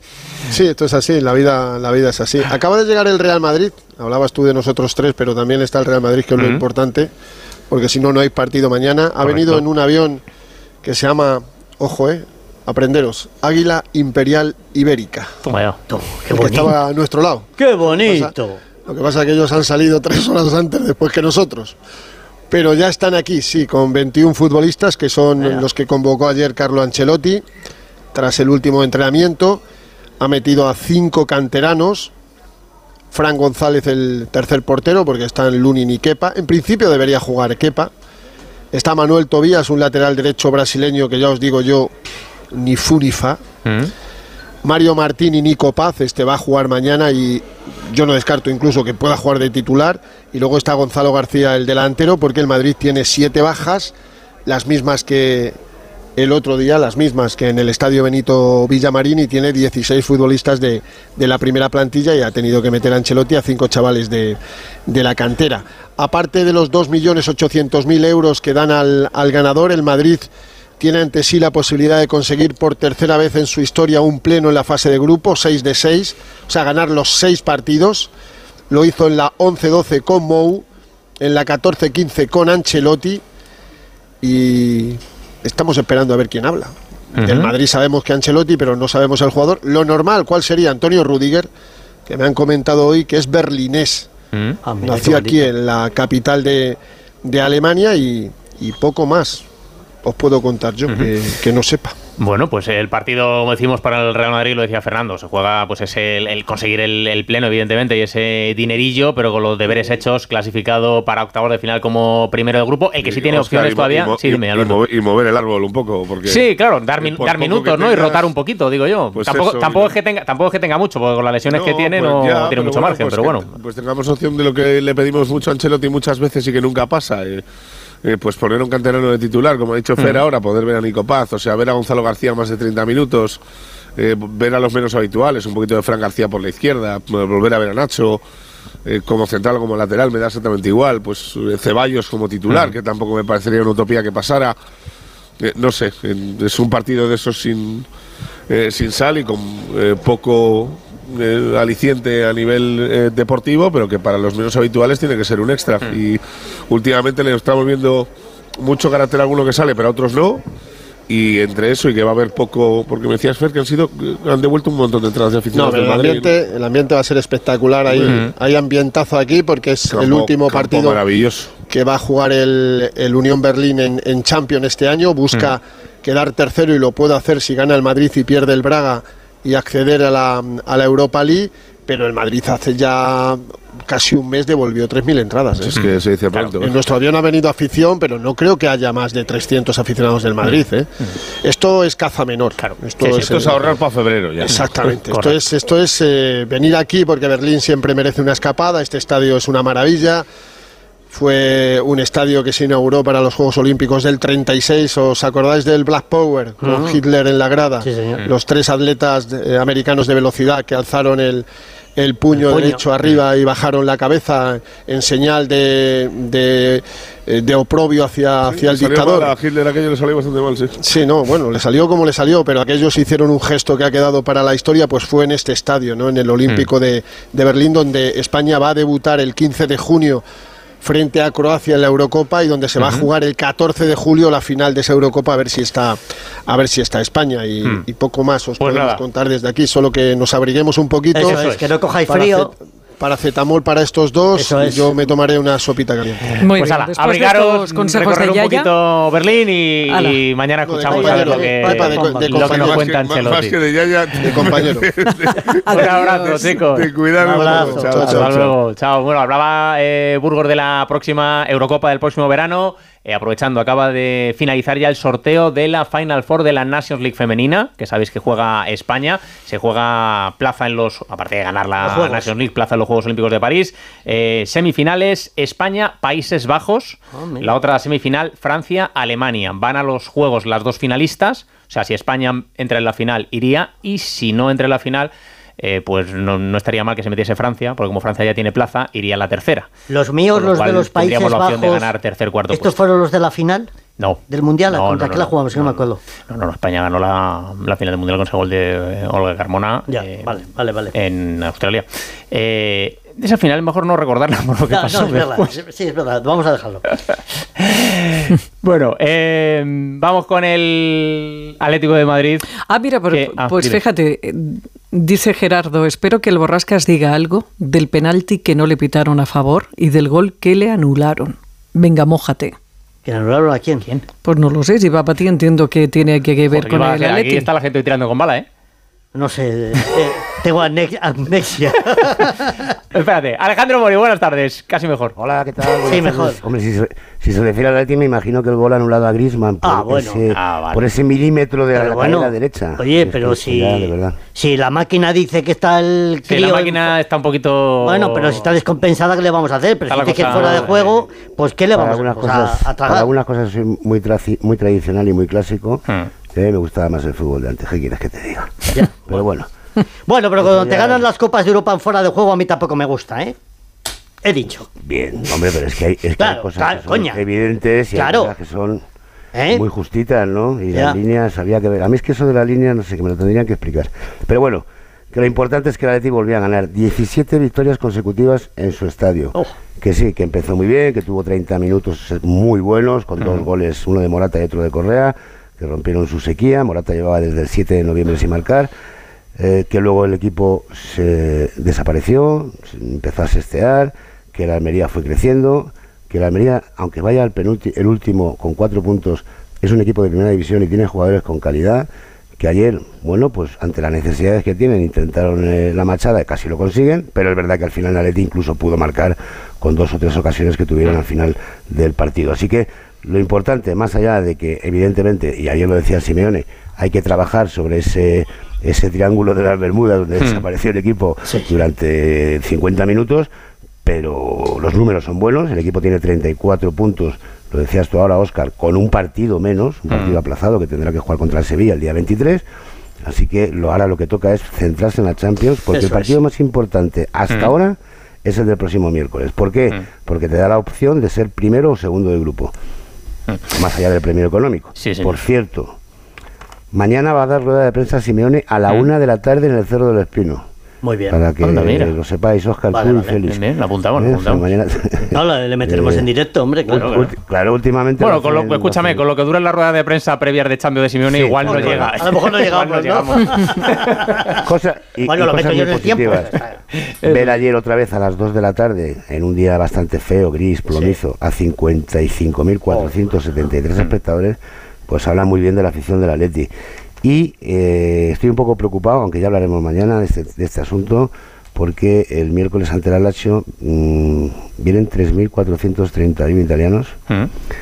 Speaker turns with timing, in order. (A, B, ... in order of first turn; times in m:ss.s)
0:00.5-0:07.1 A
0:07.7-0:10.2 A
0:10.8-0:15.3 A
0:15.4-0:15.8 B
0:15.9-0:16.8 C
0:16.3-0:21.8 A
0:17.6-0:18.6 C
0:22.5-0:27.4 A
0:28.1-0:29.6 A
0:30.2-0:32.1 A
0:33.1-0:37.9 A
0:38.7-0:41.9 A
0:42.5-0:43.4 A
0:44.6-0:53.9 A
0:54.4-0:55.6 A
0:56.2-1:10.3 A
1:10.8-1:18.1 A
1:18.7-1:20.6 A
1:21.2-1:23.2 A
1:24.2-1:31.5 A
1:27.2-1:27.5 B
1:32.1-1:34.1 A
1:34.6-1:35.5 C
1:34.8-1:39.4 A
1:40.0-1:41.9 A
1:42.2-1:54.8 B
1:53.0-1:58.3 D
1:56.3-2:03.5 B
1:59.1-2:00.0 D
2:01.5-2:07.4 D
2:08.0-2:13.4 D
2:14.0-2:18.2 D
2:18.8-2:24.6 D
2:25.4-2:27.9 D
2:28.5-2:40.4 D
2:41.1-2:46.3 D
2:45.5-2:51.1 A
2:49.9-2:51.5 D
2:51.6-3:05.9 A
3:05.7-3:06.4 B
3:05.8-3:06.7 D
3:06.5-3:10.9 A
3:10.4-3:11.1 B
3:11.4-3:13.8 A
3:12.6-3:13.5 B
3:13.4-3:14.5 D
3:14.4-3:20.2 A
3:14.5-3:15.4 B
3:21.1-3:31.4 A
3:26.6-3:27.0 C
3:27.8-3:28.2 C
3:32.0-3:39.4 A
3:32.4-3:32.8 C
3:38.4-3:40.7 D
3:40.8-3:50.2 A
3:50.8-4:01.4 A
3:52.8-3:53.0 B
3:58.6-3:59.0 B
4:01.1-4:02.5 C
4:01.3-4:01.7 B
4:02.1-4:06.4 A
4:04.3-4:05.0 C
4:06.4-4:08.7 E
4:06.5-4:13.6 B
4:09.9-4:10.2 E
4:10.6-4:13.0 A
4:10.9-4:12.5 C
4:11.8-4:12.1 E
4:12.5-4:18.5 D
4:14.2-4:15.3 A
4:15.6-4:16.6 E
4:15.7-4:16.9 B
4:17.1-4:18.3 A
4:17.3-4:17.7 C
4:17.5-4:49.7 B
4:31.8-4:32.3 C
4:37.1-4:37.5 C
4:49.9-4:51.9 C
4:50.3-4:52.7 B
4:52.5-4:53.7 C
4:54.0-5:00.3 B
4:54.3-4:56.0 C
4:59.9-5:00.9 C
5:00.9-5:05.5 B
5:04.7-5:06.8 C
5:07.6-5:12.4 B
5:12.7-5:22.5 E
5:13.1-5:13.8 B
5:23.0-5:23.9 C
5:24.2-5:27.5 E
5:26.5-5:28.4 B
5:29.1-5:32.4 C
5:32.9-5:35.1 B
5:35.2-5:44.2 F
5:35.8-5:36.4 C
5:39.6-5:40.2 C
5:40.3-5:40.9 B
5:41.7-5:46.9 C
5:46.3-5:48.5 B
5:47.8-5:53.1 C
5:49.9-5:51.0 B
5:51.7-5:59.5 F
5:58.7-5:59.3 C
6:00.1-6:03.3 C
6:00.4-6:01.1 F
6:04.2-6:04.7 C
6:04.7-6:08.8 F
6:06.2-6:07.2 C
6:07.9-6:08.3 C
6:09.3-6:09.6 C
6:09.4-6:28.7 F
6:10.7-6:11.0 C
6:23.2-6:23.4 B
6:29.4-7:03.3 F
7:03.8-7:12.4 F
7:09.9-7:10.2 B
7:13.0-7:22.5 F
7:15.7-7:16.1 B
7:23.5-7:25.7 F
7:24.8-7:25.2 B
7:26.7-7:30.5 F
7:30.8-7:31.2 C
7:31.1-7:36.1 F
7:31.4-7:31.9 B
7:32.7-7:33.2 C
7:33.3-7:34.5 B
7:35.1-7:36.9 C
7:36.7-7:39.0 F
7:36.7-7:37.0 B
7:38.0-7:43.9 B
7:41.1-7:43.6 C
7:44.4-7:46.5 F
7:45.0-7:46.6 C
7:47.0-7:56.5 F
7:52.7-7:53.0 C
7:57.0-8:06.9 F